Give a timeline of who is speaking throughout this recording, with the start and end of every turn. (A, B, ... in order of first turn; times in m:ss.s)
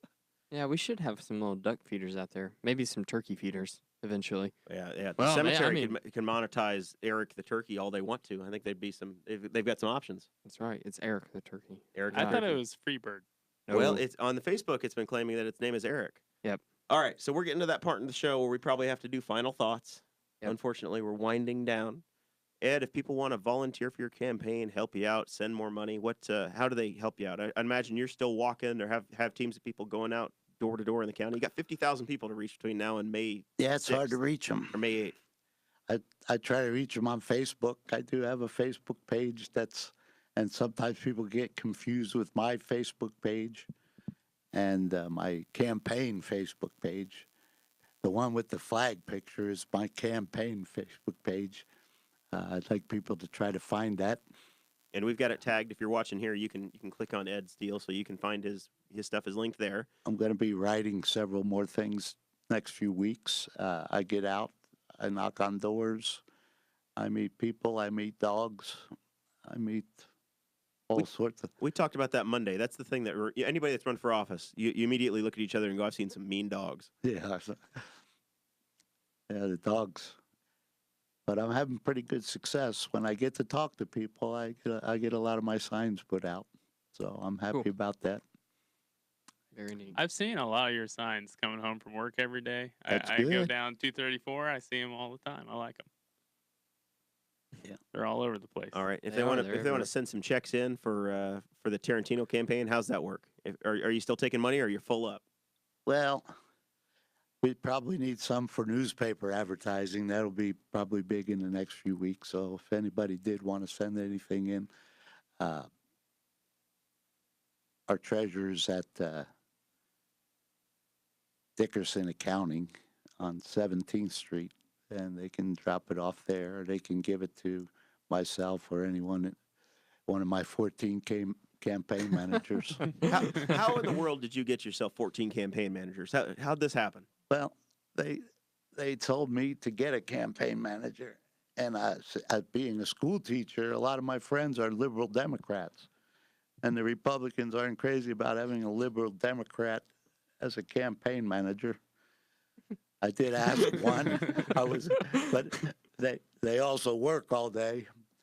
0:00.5-0:04.5 A
0:04.7-0:10.3 B
0:05.2-0:06.0 A
0:10.4-0:12.6 A
0:12.0-0:12.5 B
0:12.1-0:13.2 C
0:13.7-0:14.0 A
0:13.7-0:16.2 B
0:16.9-0:22.0 B
0:22.6-0:34.2 B
0:33.6-0:34.8 D
0:34.7-0:35.2 B
0:35.9-0:43.7 D
0:44.5-0:47.3 D
0:48.0-0:51.6 D
0:52.3-0:54.2 D
0:54.9-0:59.9 B
1:00.0-1:06.2 D
1:07.0-1:08.9 D
1:09.4-1:10.0 D
1:10.9-1:11.5 D
1:11.6-1:16.9 B
1:17.0-1:17.8 D
1:19.3-1:20.2 D
1:21.3-1:28.2 D
1:29.5-1:30.0 A
1:30.0-1:35.9 C
1:32.9-1:33.5 D
1:37.9-1:38.8 C
1:38.7-1:45.2 B
1:39.1-1:39.9 A
1:45.9-1:46.3 D
1:47.4-1:54.7 D
1:55.4-1:55.7 D
1:57.9-1:59.2 D
2:01.6-2:09.3 D
2:10.1-2:13.1 D
2:13.1-2:17.1 B
2:17.3-2:18.2 D
2:18.8-2:25.9 D
2:26.6-2:29.9 D
2:30.4-2:31.8 D
2:33.0-2:37.9 D